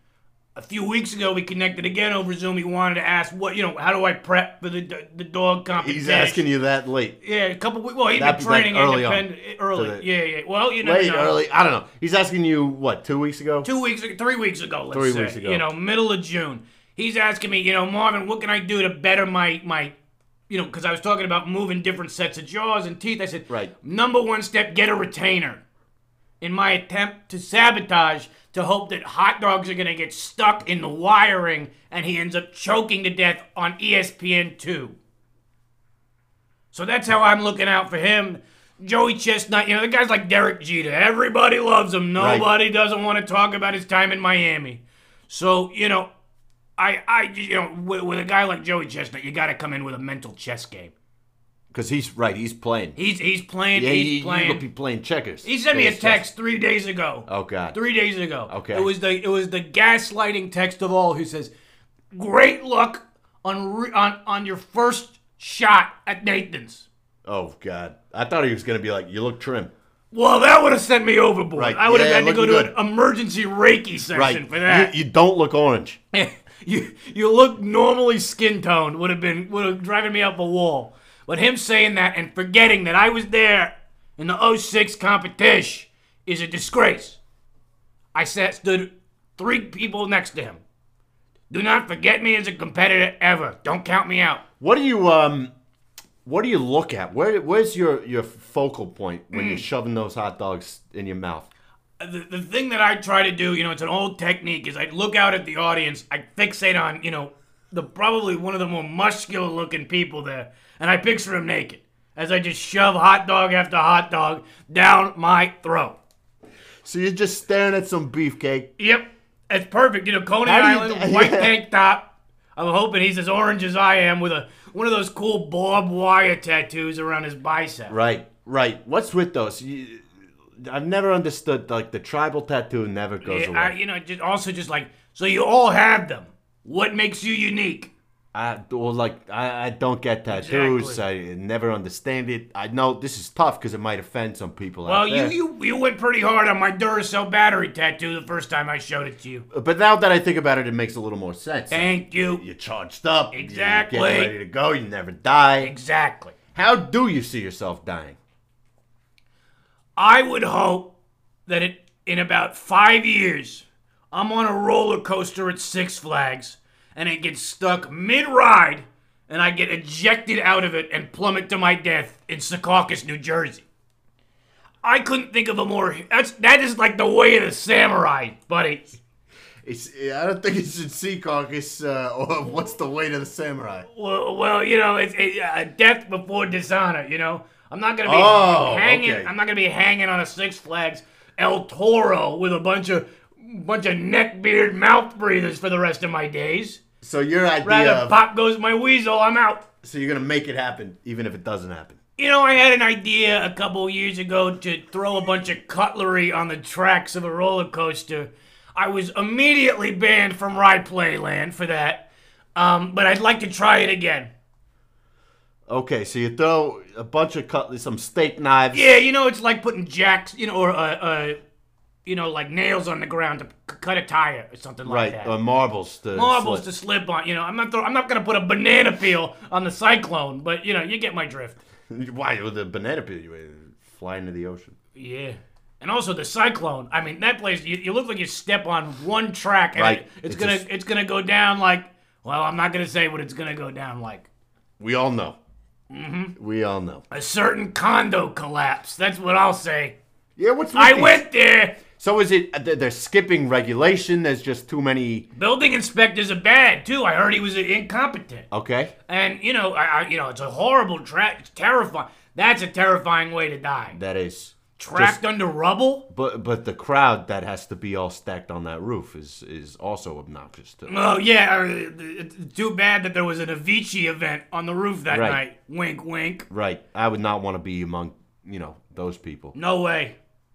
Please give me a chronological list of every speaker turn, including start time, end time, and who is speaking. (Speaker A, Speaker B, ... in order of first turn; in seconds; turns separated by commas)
Speaker A: 0.6-6.4, Speaker B: 5.8-7.2, Speaker A: 7.2-11.3, Speaker B: 8.2-10.0, Speaker B: 10.8-13.7, Speaker A: 13.6-19.9, Speaker B: 14.9-15.6, Speaker A: 20.5-25.6, Speaker A: 26.4-35.0, Speaker A: 36.7-46.1, Speaker B: 42.2-42.5, Speaker A: 46.8-50.9, Speaker B: 51.7-53.0, Speaker A: 53.0-54.6, Speaker B: 53.7-56.2, Speaker A: 55.4-61.5, Speaker B: 57.3-57.8, Speaker B: 58.5-58.9, Speaker A: 62.1-66.9, Speaker B: 67.2-69.7, Speaker A: 70.1-74.9, Speaker B: 71.5-72.7, Speaker B: 74.1-76.0, Speaker A: 76.1-87.2, Speaker A: 88.1-90.6, Speaker A: 91.5-94.4, Speaker B: 94.6-95.5, Speaker B: 96.2-101.5, Speaker A: 99.3-99.6, Speaker A: 102.0-116.0, Speaker B: 116.8-118.7, Speaker A: 118.8-127.9, Speaker B: 120.5-121.5, Speaker B: 127.9-130.1, Speaker B: 130.6-133.7, Speaker A: 133.2-137.9, Speaker B: 138.3-145.3, Speaker A: 140.3-141.0, Speaker A: 144.8-149.4, Speaker B: 149.5-155.7, Speaker A: 151.7-152.4, Speaker A: 153.3-154.3, Speaker A: 155.6-156.3, Speaker B: 156.5-158.2, Speaker A: 160.0-160.9, Speaker A: 161.5-173.7, Speaker A: 174.8-179.0, Speaker B: 179.6-183.9, Speaker A: 183.9-196.8, Speaker B: 188.0-189.3, Speaker B: 197.0-198.2, Speaker A: 197.6-199.7, Speaker B: 199.8-202.0, Speaker A: 202.2-214.3, Speaker B: 215.7-218.9, Speaker A: 218.7-221.4, Speaker A: 222.0-225.3, Speaker B: 224.8-226.6, Speaker A: 226.1-231.6, Speaker B: 231.9-234.7, Speaker A: 234.9-244.3, Speaker B: 239.8-240.6, Speaker B: 244.8-245.4, Speaker A: 245.9-246.3, Speaker B: 246.3-247.0, Speaker A: 247.1-249.9, Speaker B: 250.4-251.2, Speaker A: 250.7-251.8, Speaker B: 251.8-255.3, Speaker A: 255.3-258.5, Speaker B: 258.5-258.9, Speaker A: 259.1-264.0, Speaker B: 263.9-265.2, Speaker A: 264.8-266.1, Speaker B: 266.1-270.9, Speaker A: 270.9-276.4, Speaker B: 275.1-275.4, Speaker B: 276.5-279.5, Speaker A: 279.5-280.1